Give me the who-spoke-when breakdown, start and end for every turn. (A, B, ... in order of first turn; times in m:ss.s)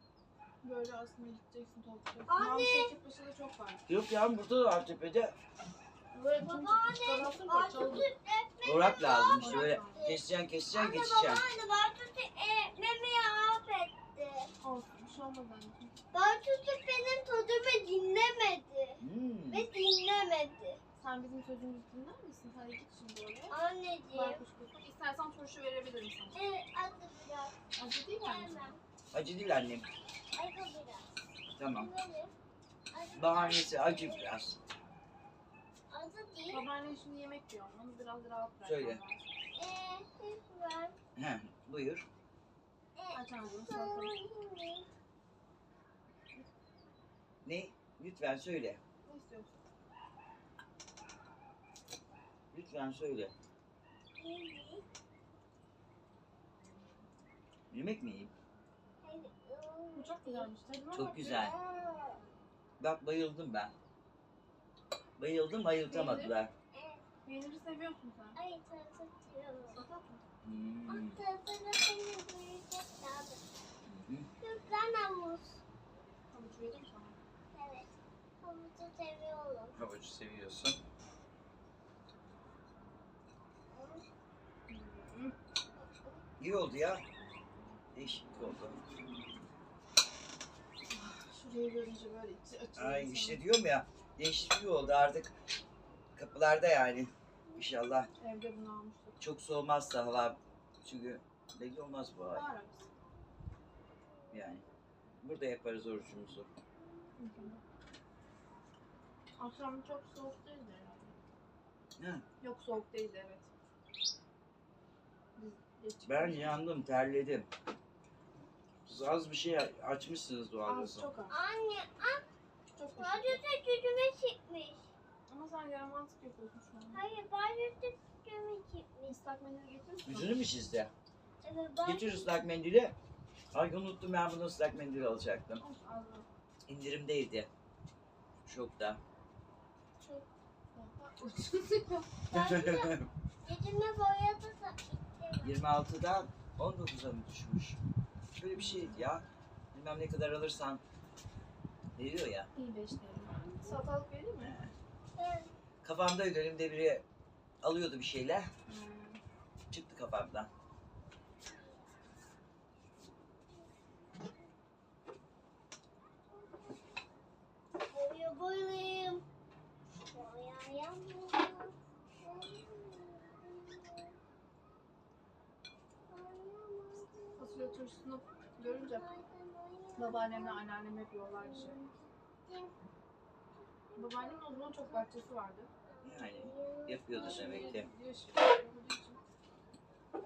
0:00.6-0:03.8 A
0:02.3-0:02.9 B
0:03.9-0:05.3 C
0:06.1-0:08.1 A
0:06.4-0:10.2 B
0:08.6-0:11.4 C
0:09.4-0:10.1 A
0:10.7-0:14.5 B
0:14.6-0:16.0 A
0:16.1-0:20.8 B
0:19.0-0:19.7 C
0:21.0-0:23.5 A
0:23.5-0:24.4 B
0:24.1-0:26.4 A
0:26.3-0:27.5 B
0:27.8-0:28.7 A
0:28.1-0:28.8 B
0:29.1-0:29.8 C
0:30.3-0:31.1 B
0:31.6-0:31.9 C
0:31.7-0:32.3 B
0:32.9-0:34.3 B
0:33.1-0:34.6 C
0:35.9-0:36.6 B
0:36.5-0:39.3 A
0:38.6-0:39.0 C
0:39.5-0:41.0 B
0:41.2-0:42.0 C
0:43.0-0:44.9 B
0:43.1-0:44.2 A
0:47.4-0:48.8 C
0:49.0-0:49.6 A
0:52.5-0:53.3 C
0:54.2-0:54.8 B
0:57.7-0:58.3 C
0:59.0-1:00.5 B
0:59.9-1:01.4 A
1:00.9-1:01.5 C
1:01.4-1:02.2 B
1:02.8-1:03.7 C
1:05.2-1:06.5 C
1:05.9-1:06.3 A
1:06.7-1:07.0 B
1:07.2-1:08.4 A
1:08.3-1:09.8 B
1:09.7-1:10.2 A
1:10.4-1:11.2 C
1:10.9-1:13.4 B
1:13.8-1:14.3 C
1:14.4-1:15.6 B
1:16.3-1:17.2 A
1:17.5-1:17.9 B
1:18.4-1:19.8 B
1:19.7-1:20.8 C
1:23.7-1:24.0 B
1:24.7-1:25.3 A
1:26.4-1:27.0 C
1:27.9-1:28.8 C
1:30.9-1:33.4 A
1:32.8-1:35.3 C
1:36.2-1:38.1 C
1:38.2-1:39.2 A
1:39.2-1:42.5 C
1:42.3-1:42.9 A
1:44.3-1:44.6 C
1:45.2-1:46.5 C
1:47.2-1:47.6 A
1:49.4-1:51.1 A
1:52.0-1:52.2 C
1:52.4-1:53.5 A
1:55.4-1:56.6 A
1:56.0-1:57.5 C
1:58.8-2:01.1 C
2:00.6-2:01.4 A
2:01.3-2:02.2 B
2:02.7-2:03.4 A
2:02.9-2:04.9 B
2:05.3-2:07.0 A
2:06.9-2:09.2 B
2:09.1-2:10.4 A
2:10.0-2:10.9 C
2:11.4-2:12.3 B
2:11.8-2:12.9 C
2:13.5-2:15.6 C
2:15.6-2:16.2 A
2:16.7-2:17.5 C
2:18.4-2:19.0 C
2:20.0-2:22.2 A
2:22.3-2:23.1 C
2:22.3-2:25.5 B
2:25.4-2:27.8 C
2:28.4-2:30.8 C
2:28.6-2:29.0 A
2:32.0-2:32.5 C
2:32.5-2:34.5 A
2:34.4-2:34.7 C
2:35.2-2:35.5 B
2:35.8-2:37.0 C
2:37.6-2:38.5 C
2:38.7-2:39.2 A
2:39.7-2:40.5 C
2:41.5-2:41.8 B
2:47.9-2:49.2 B
2:50.1-2:54.2 B
2:56.1-2:57.8 B
2:57.4-2:59.1 A
2:58.6-3:00.6 B
3:00.0-3:01.8 A
3:01.4-3:02.7 B
3:03.6-3:05.0 B
3:03.9-3:05.7 A
3:05.9-3:07.1 B
3:06.0-3:07.9 C
3:07.1-3:09.2 A